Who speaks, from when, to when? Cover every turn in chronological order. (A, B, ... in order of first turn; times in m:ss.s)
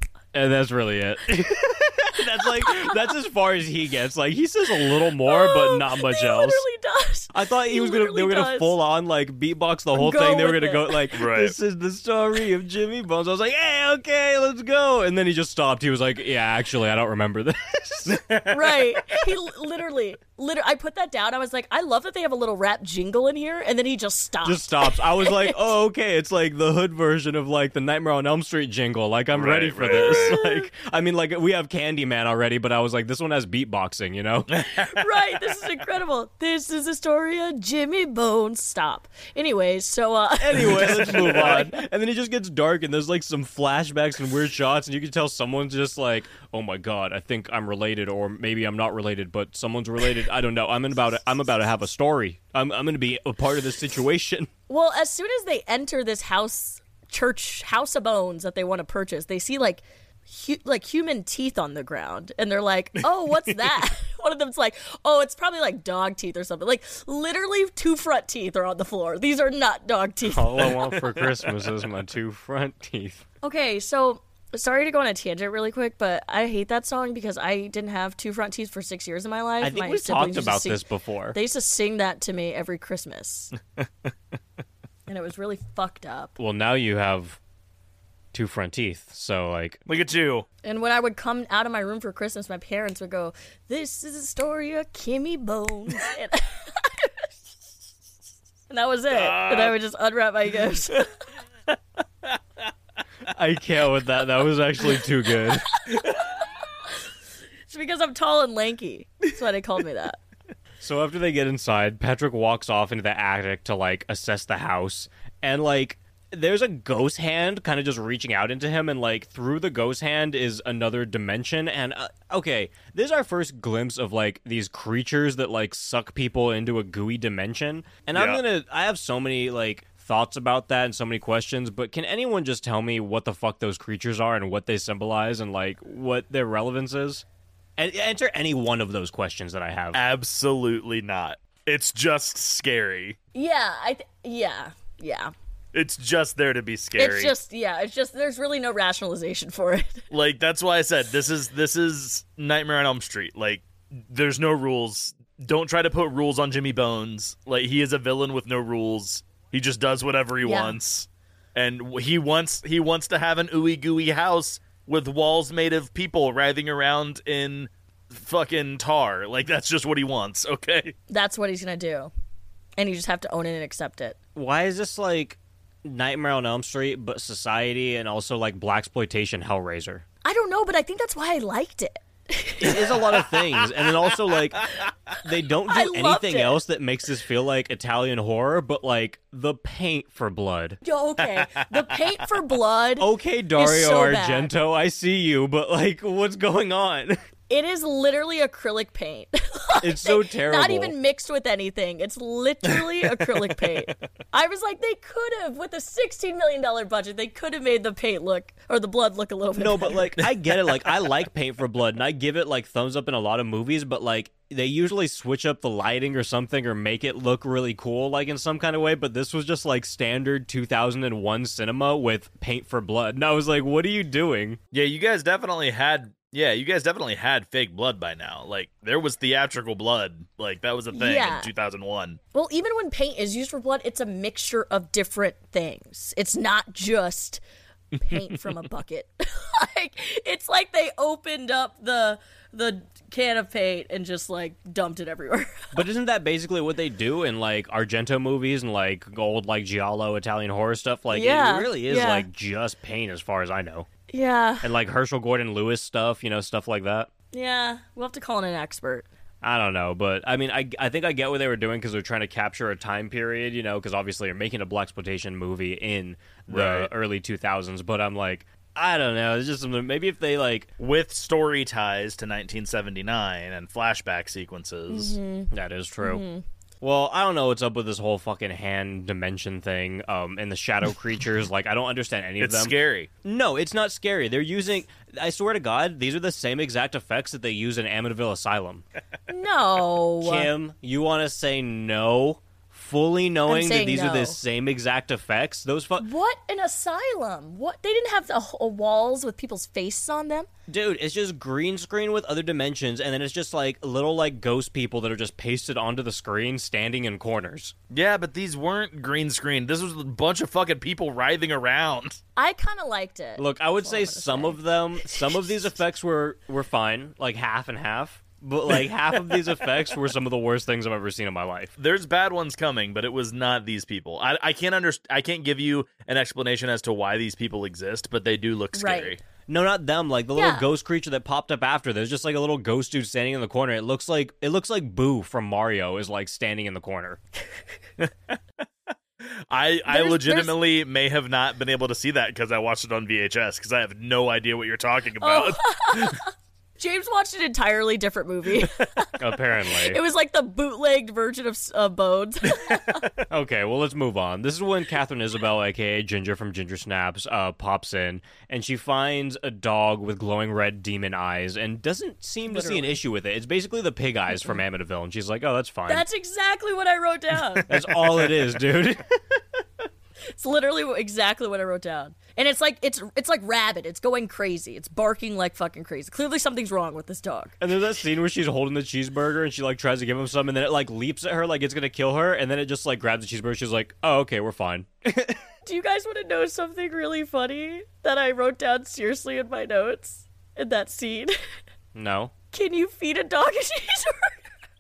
0:00.3-0:06.6 A
0:02.5-0:03.0 B
0:05.2-0:08.8 B
0:07.3-0:19.0 A
0:10.0-0:11.1 B
0:11.1-0:11.5 C
0:18.5-0:25.6 B
0:24.4-0:34.5 A
0:29.3-0:30.4 C
0:30.0-0:30.7 B
0:34.6-0:34.9 C
0:34.8-0:41.8 B
0:40.4-0:54.5 A
0:40.6-0:41.6 C
0:54.7-1:10.7 B
1:10.2-1:13.2 A
1:10.8-1:11.2 C
1:13.4-1:23.5 B
1:19.6-1:21.4 A
1:25.1-1:26.4 B
1:26.4-1:27.4 A
1:28.3-1:29.8 A
1:29.9-1:30.5 C
1:30.6-1:37.1 B
1:38.7-1:41.1 B
1:39.1-1:39.8 C
1:43.3-1:45.7 A
1:47.7-1:50.2 B
1:50.8-2:17.2 A
2:08.1-2:08.4 C
2:17.8-2:20.0 A
2:19.9-2:23.2 C
2:23.4-2:25.3 B
2:25.7-2:27.3 C
2:27.0-2:30.0 B
2:30.1-2:51.0 C
2:40.4-2:40.8 B
2:51.1-2:52.1 B
2:52.8-2:54.2 B
2:54.4-3:00.0 A
3:00.2-3:03.0 B
3:02.6-3:10.8 A
3:05.7-3:06.6 B
3:10.8-3:14.5 B
3:13.0-3:17.2 A
3:17.5-3:30.0 B
3:19.8-3:21.0 A
3:22.8-3:23.3 C
3:29.6-3:44.6 A
3:44.7-3:52.2 C
3:50.9-3:51.5 B
3:52.3-3:57.4 B
3:58.0-4:05.8 B
4:05.7-4:13.9 A
4:11.1-4:12.3 B
4:14.1-4:14.7 B
4:14.6-4:17.1 A
4:17.3-4:19.1 B
4:19.4-4:30.7 A
4:26.5-4:26.9 C
4:30.8-4:35.2 C
4:34.9-4:36.4 B
4:35.5-4:36.2 A
4:36.8-4:48.8 A
4:42.4-4:43.1 C
4:49.3-4:50.5 B
4:50.2-4:56.1 A
4:53.5-4:54.4 B
4:56.0-5:00.5 B
5:00.7-5:07.7 A
5:07.9-5:12.2 C
5:12.4-5:15.4 B
5:13.4-5:21.7 A
5:21.8-5:29.2 C
5:28.7-5:29.2 B
5:29.5-5:37.2 A
5:30.4-5:30.7 B
5:39.2-5:46.2 C
5:39.9-5:40.6 B
5:45.2-5:53.0 B
5:49.2-5:50.0 A
5:53.3-6:06.0 A
6:02.5-6:02.9 B
6:04.3-6:04.6 B
6:05.9-6:07.7 B
6:07.7-6:09.4 A
6:10.4-6:17.6 B
6:17.6-6:25.4 A
6:25.6-6:31.4 B
6:32.0-6:32.3 A
6:32.5-6:34.4 B